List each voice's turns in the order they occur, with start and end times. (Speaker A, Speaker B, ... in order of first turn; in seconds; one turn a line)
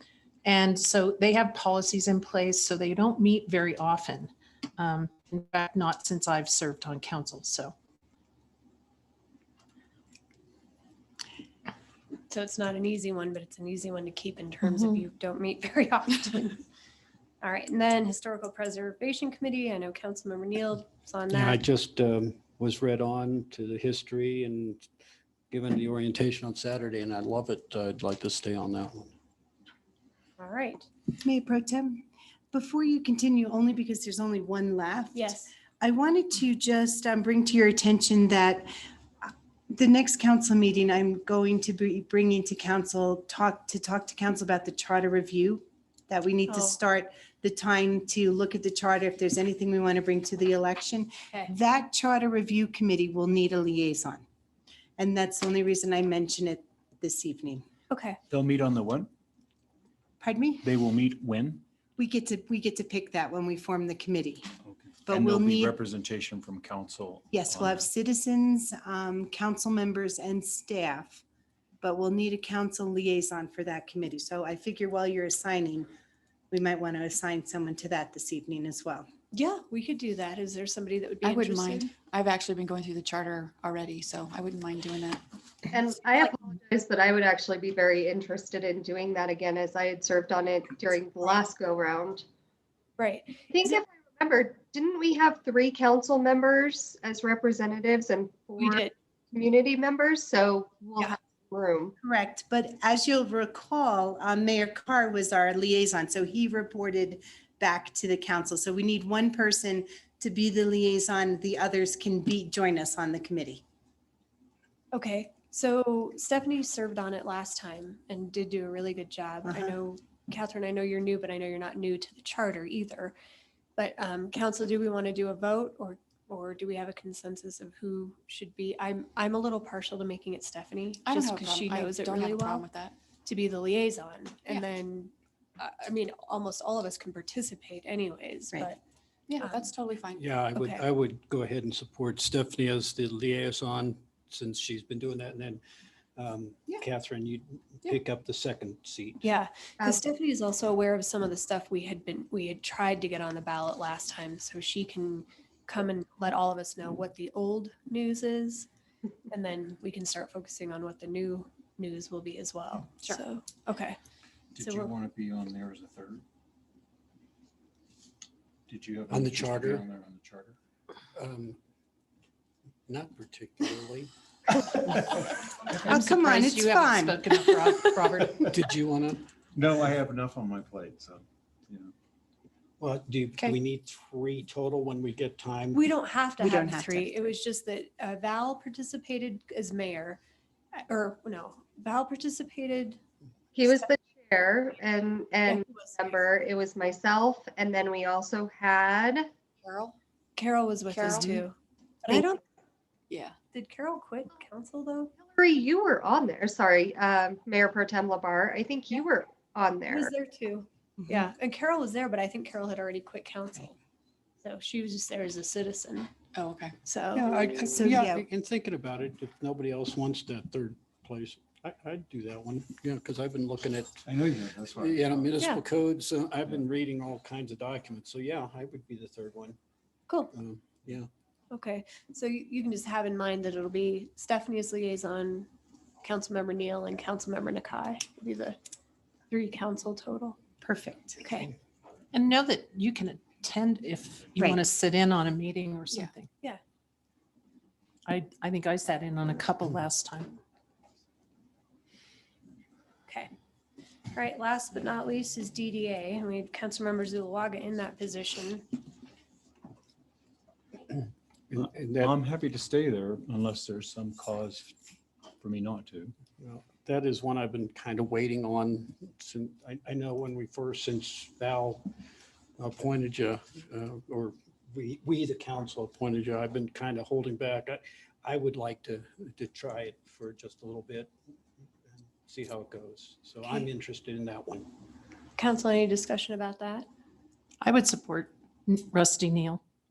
Speaker A: 0.4-7.7
Speaker B: 12.3-16.6
Speaker B: 17.4-21.6
Speaker C: 21.3-24.9
Speaker C: 25.5-29.1
Speaker B: 30.4-30.9
Speaker D: 31.2-38.7
Speaker B: 35.1-35.5
Speaker D: 39.2-54.2
Speaker B: 46.5-46.8
Speaker D: 55.0-57.6
Speaker B: 57.9-58.2
Speaker E: 58.3-59.1
Speaker D: 60.2-60.7
Speaker E: 60.6-61.6
Speaker D: 62.0-64.5
Speaker E: 64.7-67.9
Speaker D: 65.1-65.8
Speaker D: 67.3-71.2
Speaker D: 71.8-75.9
Speaker D: 76.5-79.1
Speaker B: 79.3-81.9
Speaker F: 81.2-85.2
Speaker G: 85.7-92.2
Speaker B: 93.0-93.7
Speaker G: 93.5-101.9
Speaker B: 98.6-98.9
Speaker D: 102.0-113.6
Speaker B: 114.9-123.2
Speaker D: 119.5-119.7
Speaker B: 123.8-132.7
Speaker F: 131.1-133.0
Speaker B: 133.2-138.8
Speaker F: 139.3-140.4
Speaker B: 139.4-139.7
Speaker C: 140.1-145.6
Speaker B: 140.5-140.8
Speaker C: 146.2-149.2
Speaker B: 149.2-158.7
Speaker B: 159.3-164.0
Speaker E: 164.6-166.2
Speaker B: 164.6-164.9
Speaker E: 168.7-170.6
Speaker C: 169.1-169.8
Speaker C: 171.2-171.6
Speaker C: 172.9-174.1
Speaker A: 175.8-178.5
Speaker D: 175.9-177.2
Speaker C: 178.5-179.2
Speaker E: 179.6-181.9
Speaker C: 182.8-185.8
Speaker B: 185.7-190.2
Speaker D: 186.4-187.3
Speaker B: 190.9-193.0
Speaker G: 193.6-199.3
Speaker B: 200.4-202.4
Speaker F: 201.0-201.3
Speaker F: 203.1-203.3
Speaker B: 203.5-205.2
Speaker G: 205.3-210.1
Speaker B: 209.9-213.8
Speaker B: 214.4-216.1
Speaker F: 216.3-216.8
Speaker B: 216.8-217.5
Speaker C: 217.2-224.0
Speaker D: 217.5-218.3
Speaker E: 224.1-225.4
Speaker C: 224.8-229.6
Speaker C: 230.3-231.1
Speaker B: 231.5-235.5
Speaker B: 236.0-238.6
Speaker B: 239.3-240.4
Speaker D: 240.6-241.2
Speaker B: 241.2-241.5
Speaker A: 242.1-246.3
Speaker D: 244.4-244.6
Speaker A: 248.1-250.4
Speaker B: 253.1-253.3
Speaker B: 254.1-258.7
Speaker C: 261.5-262.2
Speaker E: 261.6-264.7
Speaker E: 265.4-266.1
Speaker C: 266.4-271.9
Speaker C: 272.6-281.1
Speaker C: 281.9-284.7
Speaker B: 285.4-286.9
Speaker A: 287.6-289.6